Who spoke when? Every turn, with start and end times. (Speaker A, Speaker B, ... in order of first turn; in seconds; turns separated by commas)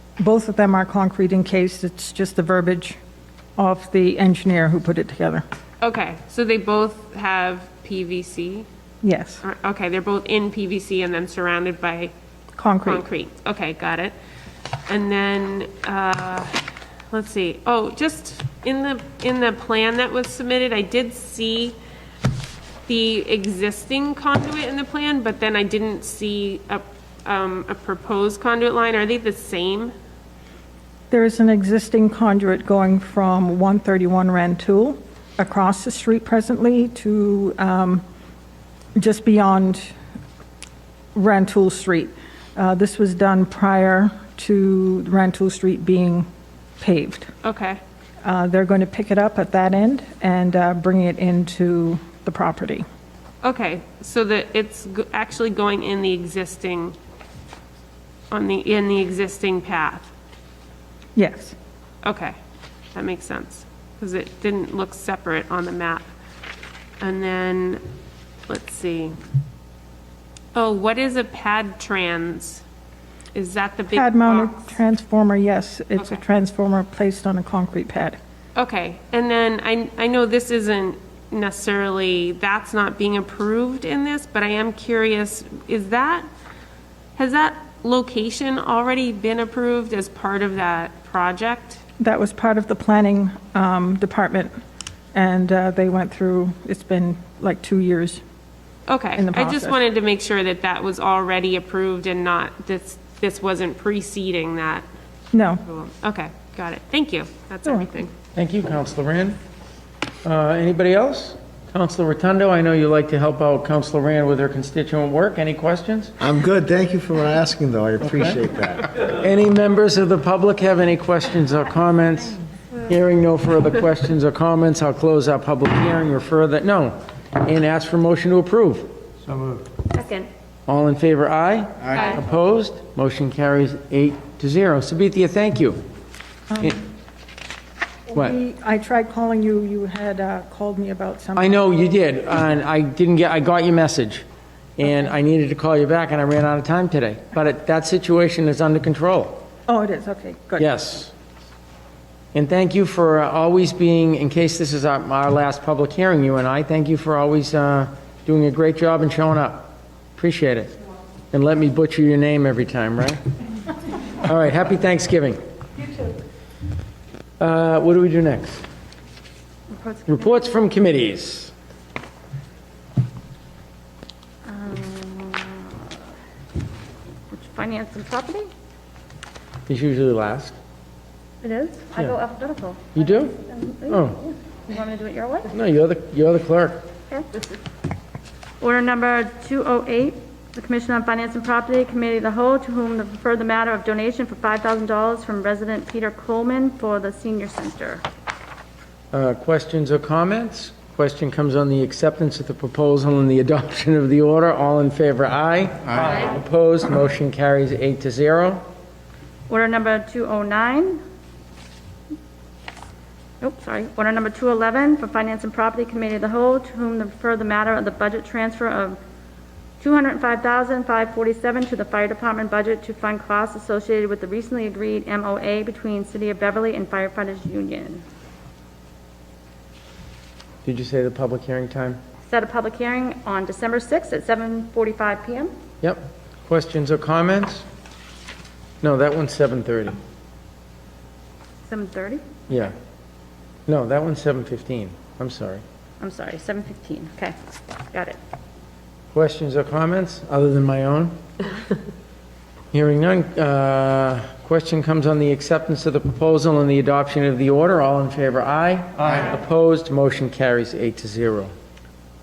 Speaker A: 0.2-3.0, Speaker A: 3.6-5.4, Speaker B: 5.8-8.7, Speaker A: 9.0-9.4, Speaker B: 9.4-12.1, Speaker A: 12.6-13.0, Speaker B: 12.8-14.1, Speaker B: 14.9-21.8, Speaker B: 22.9-29.9, Speaker A: 31.1-38.0, Speaker A: 39.0-40.0, Speaker A: 41.1-46.3, Speaker A: 46.8-47.3, Speaker B: 47.4-47.8, Speaker A: 48.2-52.9, Speaker B: 53.4-57.0, Speaker B: 58.3-60.1, Speaker A: 61.2-61.5, Speaker B: 62.0-62.4, Speaker B: 63.0-66.1, Speaker B: 67.0-67.8, Speaker B: 68.5-69.2, Speaker B: 70.5-72.6, Speaker B: 73.3-74.6, Speaker A: 73.9-78.2, Speaker B: 78.5-86.3, Speaker B: 87.2-91.8, Speaker A: 92.0-94.5, Speaker A: 95.1-98.2, Speaker B: 98.9-104.8, Speaker A: 99.2-99.8, Speaker A: 105.3-105.6, Speaker B: 105.6-108.1, Speaker C: 108.3-109.4, Speaker C: 110.2-116.2, Speaker D: 116.2-118.9, Speaker C: 118.1-118.3, Speaker C: 119.0-129.7, Speaker E: 129.9-130.3, Speaker C: 130.7-135.8, Speaker A: 138.1-141.6, Speaker C: 141.4-144.2, Speaker C: 144.8-149.4, Speaker A: 149.7-150.7, Speaker C: 150.6-151.1, Speaker C: 152.3-160.8, Speaker C: 161.3-163.2, Speaker C: 164.2-165.4, Speaker C: 167.4-168.6, Speaker E: 169.7-170.4, Speaker C: 170.1-171.5, Speaker E: 174.5-175.9, Speaker E: 177.3-178.5, Speaker C: 179.7-180.6, Speaker E: 181.4-185.5, Speaker C: 182.9-183.3, Speaker C: 183.9-184.2, Speaker C: 185.5-186.9, Speaker E: 188.6-198.0, Speaker C: 199.1-208.6, Speaker E: 209.5-211.0, Speaker E: 213.4-219.0, Speaker E: 219.8-228.0, Speaker C: 230.7-232.0, Speaker E: 232.3-235.5, Speaker C: 235.8-237.7, Speaker C: 238.8-240.0, Speaker E: 241.7-242.2, Speaker C: 242.5-242.7, Speaker C: 243.7-245.6, Speaker E: 246.0-247.3, Speaker E: 247.9-248.2, Speaker C: 249.1-251.2, Speaker C: 252.7-261.5